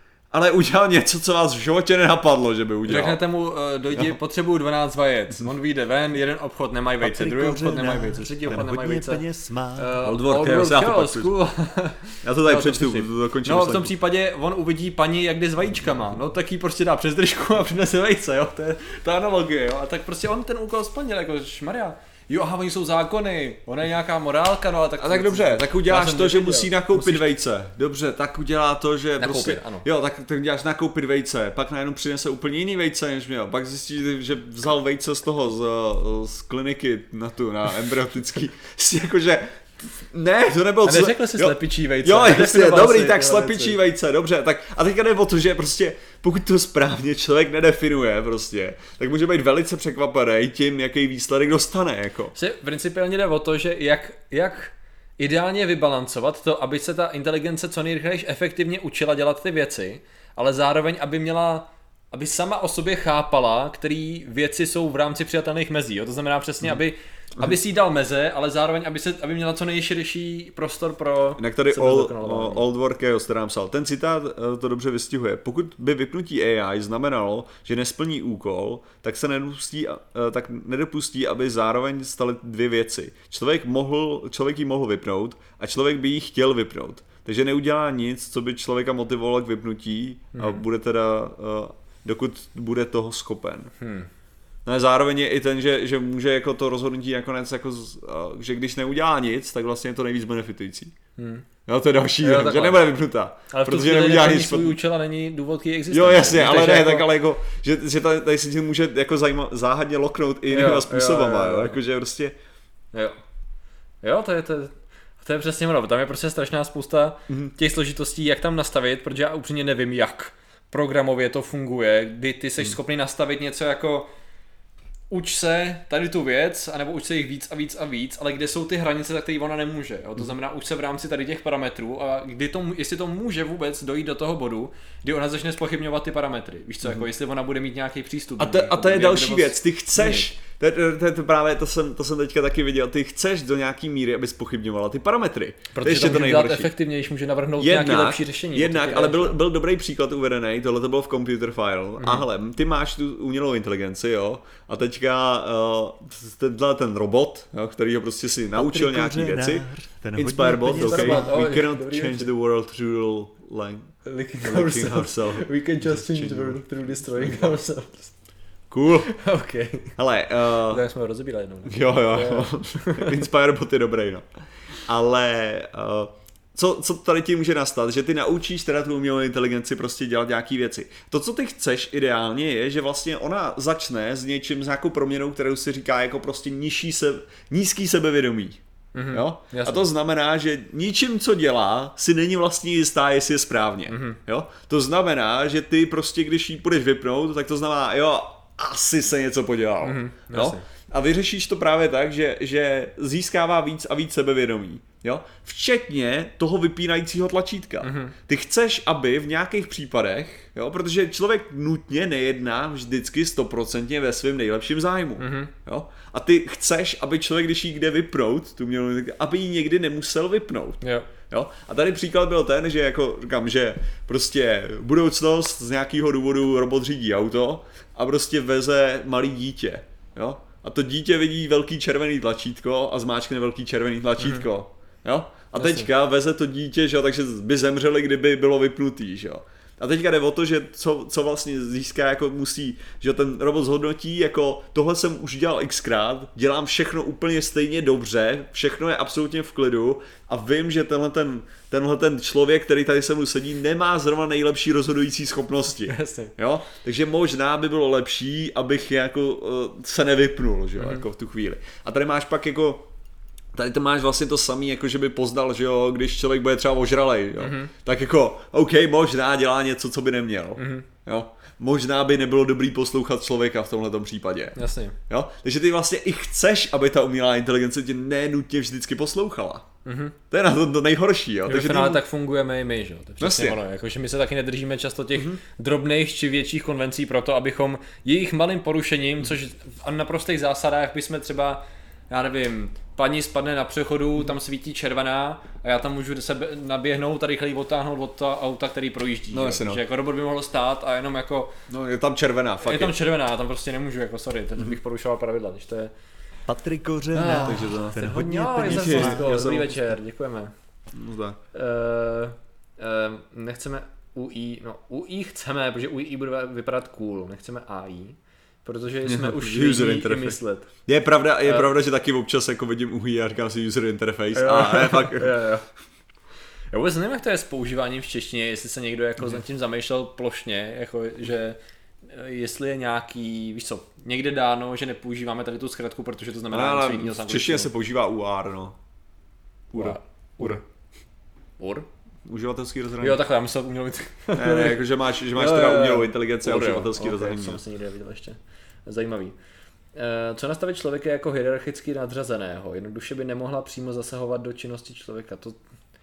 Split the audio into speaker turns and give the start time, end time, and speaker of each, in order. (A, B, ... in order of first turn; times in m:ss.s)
0:00.3-0:03.2 A
0:02.8-0:09.2 B
0:07.0-0:10.0 C
0:09.8-0:27.2 B
0:10.0-0:11.3 A
0:12.2-0:13.9 A
0:25.0-0:52.3 A
0:29.2-0:29.8 B
0:40.8-0:43.8 B
0:52.3-1:12.6 B
1:11.4-1:33.7 A
1:30.3-1:30.6 B
1:33.8-1:34.1 B
1:34.6-1:40.9 A
1:41.2-1:41.5 B
1:41.6-1:44.8 A
1:42.2-1:42.8 B
1:43.5-1:47.1 B
1:45.9-1:52.4 A
1:50.5-1:51.8 B
1:52.9-1:53.2 B
1:54.0-2:04.1 B
2:05.1-2:20.2 B
2:18.4-2:26.7 A
2:25.7-2:29.4 B
2:27.6-2:47.5 A
2:32.0-2:32.2 B
2:38.5-2:41.6 C
2:40.7-2:42.3 B
2:44.0-2:48.1 B
2:48.7-2:49.1 A
2:49.1-2:49.9 B
2:50.0-2:50.8 A
2:50.7-2:53.2 B
2:51.7-2:54.2 A
2:54.8-4:22.9 A
3:08.9-3:09.8 B
3:13.9-3:14.2 B
3:19.8-3:20.6 B
3:27.8-3:28.1 B
3:35.2-3:35.5 B
3:40.8-3:41.1 B
3:55.6-3:55.9 B
4:15.9-4:16.3 B
4:23.5-4:34.6 A
4:27.4-4:27.7 B
4:30.6-4:30.9 B
4:34.6-4:35.0 B
4:35.1-4:39.6 A
4:39.8-4:40.2 B
4:40.3-4:42.0 A
4:41.4-5:01.6 B
4:43.2-4:43.6 A
4:45.1-4:45.4 A
4:59.3-4:59.8 A
5:01.7-5:02.9 A
5:02.6-5:05.9 B
5:06.5-5:09.5 C
5:07.1-5:10.5 B
5:07.4-5:09.7 A
5:10.9-5:11.4 A
5:11.5-5:20.7 B
5:19.0-5:25.4 A
5:24.3-5:25.7 B
5:26.7-5:37.7 B
5:36.5-5:38.8 A
5:39.7-5:40.6 A
5:39.7-5:40.6 B
5:41.6-5:41.9 B
5:42.2-5:43.2 A
5:43.0-5:49.3 B
5:44.4-5:47.6 A
5:49.9-5:55.6 B